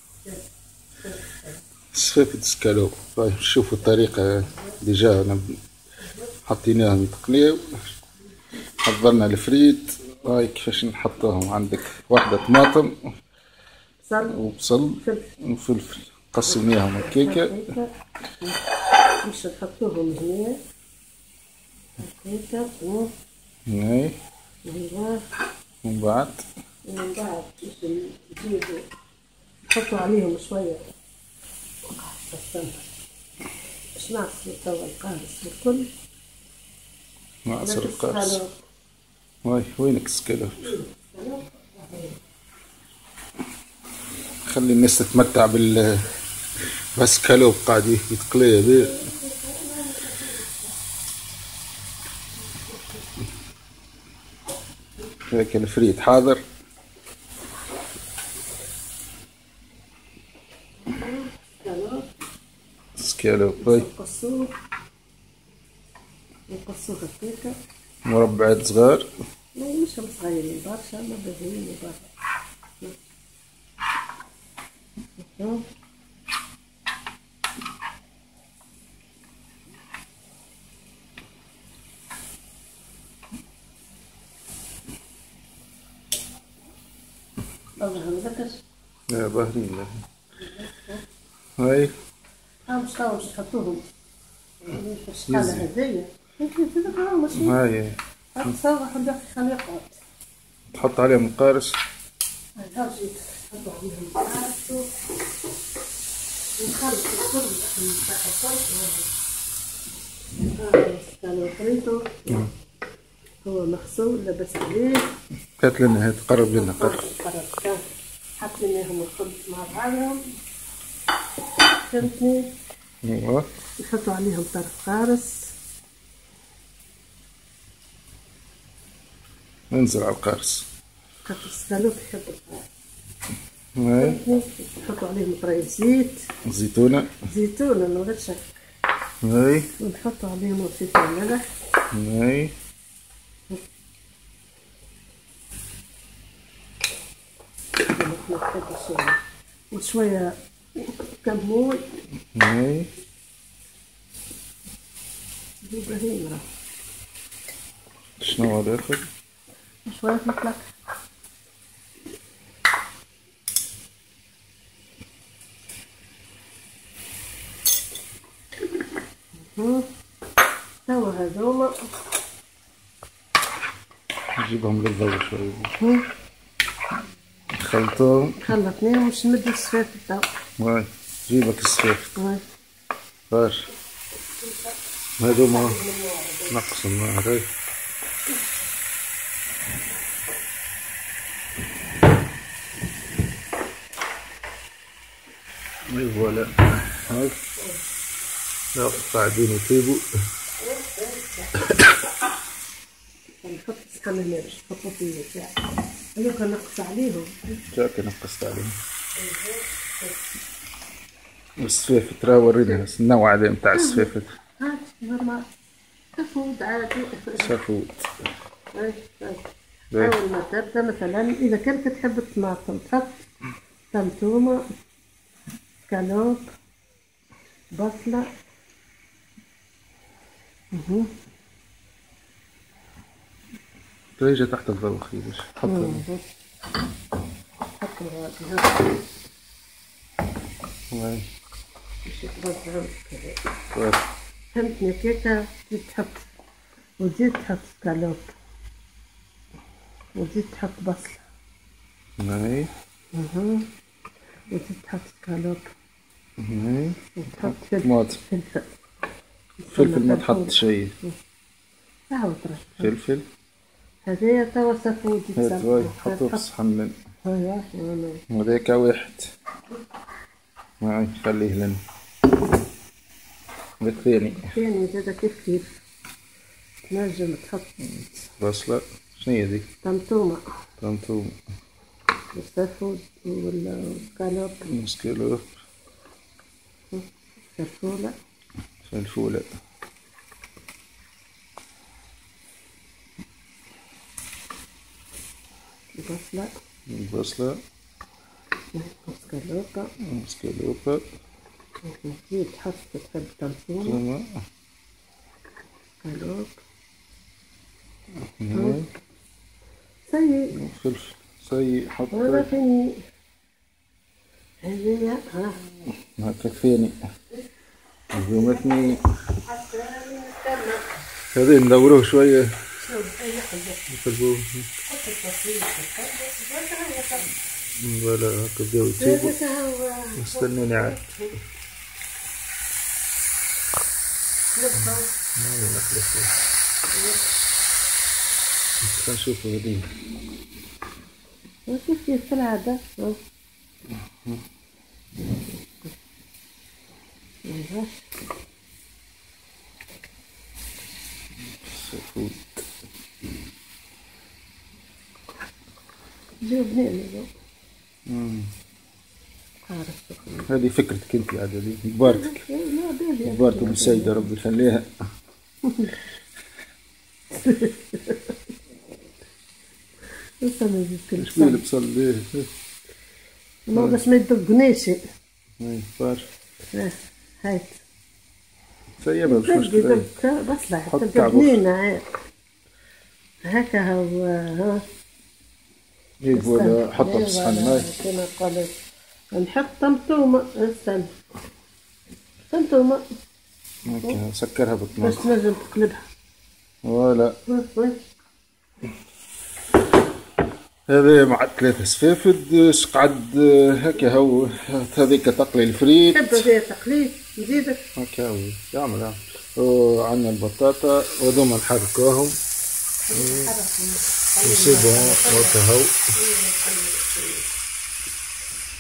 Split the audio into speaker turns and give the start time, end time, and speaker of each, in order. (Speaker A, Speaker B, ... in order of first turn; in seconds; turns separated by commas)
Speaker A: 1.0-1.6, Speaker B: 1.9-5.6, Speaker B: 6.5-7.8, Speaker B: 8.8-13.0, Speaker A: 14.0-14.4, Speaker B: 14.3-17.6, Speaker A: 15.0-15.3, Speaker A: 16.4-18.6, Speaker A: 19.2-20.6, Speaker A: 22.0-23.1, Speaker B: 23.7-24.1, Speaker A: 24.6-25.2, Speaker B: 25.8-26.4, Speaker A: 26.8-28.9, Speaker A: 29.7-30.8, Speaker A: 31.9-32.8, Speaker A: 34.0-35.9, Speaker B: 37.5-38.4, Speaker A: 37.6-38.5, Speaker B: 39.4-40.7, Speaker A: 40.6-42.2, Speaker B: 44.5-46.1, Speaker B: 47.0-49.0, Speaker A: 48.7-50.7, Speaker B: 55.2-56.4, Speaker A: 60.9-62.1, Speaker B: 63.0-63.9, Speaker A: 63.6-64.5, Speaker A: 66.5-67.5, Speaker B: 68.0-69.1, Speaker A: 69.5-72.1, Speaker A: 75.2-75.6, Speaker A: 87.8-88.6, Speaker B: 89.1-90.0, Speaker A: 90.4-91.0, Speaker B: 91.6-91.9, Speaker A: 92.7-93.8, Speaker A: 94.6-97.6, Speaker B: 95.3-95.7, Speaker B: 97.3-98.0, Speaker A: 98.3-100.0, Speaker B: 100.7-101.8, Speaker A: 102.6-104.9, Speaker A: 106.6-109.1, Speaker A: 110.5-112.5, Speaker A: 113.4-115.1, Speaker B: 115.6-117.0, Speaker A: 116.5-117.8, Speaker A: 118.4-120.2, Speaker A: 121.9-122.5, Speaker B: 123.0-123.5, Speaker A: 123.8-125.5, Speaker B: 129.7-130.7, Speaker A: 131.2-132.7, Speaker B: 133.8-134.2, Speaker A: 134.0-136.2, Speaker B: 136.4-137.2, Speaker A: 137.2-138.4, Speaker B: 139.2-139.7, Speaker A: 139.8-141.4, Speaker B: 141.9-142.5, Speaker A: 147.9-149.2, Speaker A: 149.7-151.8, Speaker B: 152.3-152.9, Speaker A: 155.6-156.4, Speaker B: 158.2-159.0, Speaker A: 159.8-160.6, Speaker A: 169.5-169.9, Speaker A: 170.8-171.9, Speaker B: 174.4-175.7, Speaker A: 175.8-176.1, Speaker B: 177.6-178.5, Speaker A: 178.4-180.3, Speaker B: 180.6-182.1, Speaker A: 182.2-182.4, Speaker B: 183.3-183.7, Speaker A: 184.4-184.8, Speaker B: 185.2-185.8, Speaker A: 185.5-186.6, Speaker B: 186.5-187.5, Speaker B: 195.9-197.3, Speaker B: 198.7-200.1, Speaker A: 200.6-201.6, Speaker A: 203.4-205.5, Speaker A: 206.2-207.6, Speaker B: 207.7-208.8, Speaker A: 209.2-210.2, Speaker B: 211.6-214.3, Speaker A: 213.7-215.4, Speaker A: 216.2-217.5, Speaker B: 217.4-218.1, Speaker A: 218.7-223.2, Speaker A: 223.9-224.6, Speaker A: 225.9-226.4, Speaker A: 227.7-228.3, Speaker A: 230.7-231.1, Speaker B: 234.2-236.0, Speaker A: 235.6-236.2, Speaker A: 237.8-239.0, Speaker B: 240.9-241.2, Speaker A: 242.1-243.4, Speaker B: 243.7-244.0, Speaker A: 244.5-246.2, Speaker A: 247.0-248.3, Speaker A: 250.1-251.2, Speaker B: 252.2-252.7, Speaker A: 253.1-253.7, Speaker A: 254.5-255.6, Speaker B: 256.4-258.2, Speaker A: 257.1-258.7, Speaker A: 259.6-261.1, Speaker B: 259.7-260.9, Speaker A: 262.1-262.9, Speaker B: 262.8-263.2, Speaker A: 264.1-266.4, Speaker B: 265.4-266.9, Speaker A: 267.2-268.2, Speaker B: 268.3-269.3, Speaker B: 270.8-271.8, Speaker B: 273.8-274.5, Speaker A: 274.3-275.8, Speaker A: 276.9-277.7, Speaker B: 278.0-279.6, Speaker A: 279.8-280.4, Speaker B: 280.8-281.3, Speaker A: 282.3-284.7, Speaker B: 284.7-285.5, Speaker A: 286.9-288.1, Speaker B: 288.8-289.5, Speaker A: 295.9-296.5, Speaker B: 296.9-297.6, Speaker A: 298.7-299.9, Speaker B: 300.0-301.0, Speaker A: 301.8-304.0, Speaker B: 303.8-304.4, Speaker A: 306.0-306.6, Speaker B: 308.2-308.9, Speaker A: 308.5-308.8, Speaker A: 310.1-310.5, Speaker B: 310.5-312.5, Speaker A: 312.1-313.0, Speaker A: 314.6-315.6, Speaker B: 316.0-317.0, Speaker B: 318.1-319.0, Speaker A: 318.3-321.0, Speaker B: 321.3-322.6, Speaker A: 322.8-323.8, Speaker B: 323.9-324.7, Speaker A: 324.8-327.3, Speaker B: 327.7-329.3, Speaker A: 329.0-331.4, Speaker B: 330.2-331.0, Speaker A: 334.5-335.1, Speaker B: 335.4-336.3, Speaker A: 336.9-337.3, Speaker B: 338.8-339.9, Speaker A: 341.7-343.2, Speaker B: 343.9-344.4, Speaker A: 347.4-348.0, Speaker B: 351.6-352.6, Speaker A: 356.4-357.3, Speaker B: 358.1-358.5, Speaker A: 359.7-360.5, Speaker B: 360.5-362.4, Speaker A: 362.0-364.3, Speaker B: 363.2-364.9, Speaker A: 365.6-366.0, Speaker A: 367.3-368.4, Speaker A: 370.4-371.6, Speaker B: 371.2-372.5, Speaker A: 373.7-375.0, Speaker B: 373.7-374.0, Speaker B: 375.6-376.2, Speaker A: 376.7-377.8, Speaker B: 379.0-380.1, Speaker A: 379.2-382.1, Speaker B: 380.9-381.6, Speaker A: 383.4-384.8, Speaker B: 386.2-387.9, Speaker A: 386.3-388.7, Speaker A: 389.3-391.1, Speaker A: 392.5-393.0, Speaker B: 393.9-395.2, Speaker A: 395.0-396.1, Speaker B: 396.8-397.4, Speaker A: 397.5-398.0, Speaker B: 400.9-406.5, Speaker A: 406.1-407.8, Speaker B: 408.0-412.4, Speaker A: 413.1-415.6, Speaker B: 413.1-413.5, Speaker B: 414.4-416.0, Speaker A: 416.1-417.5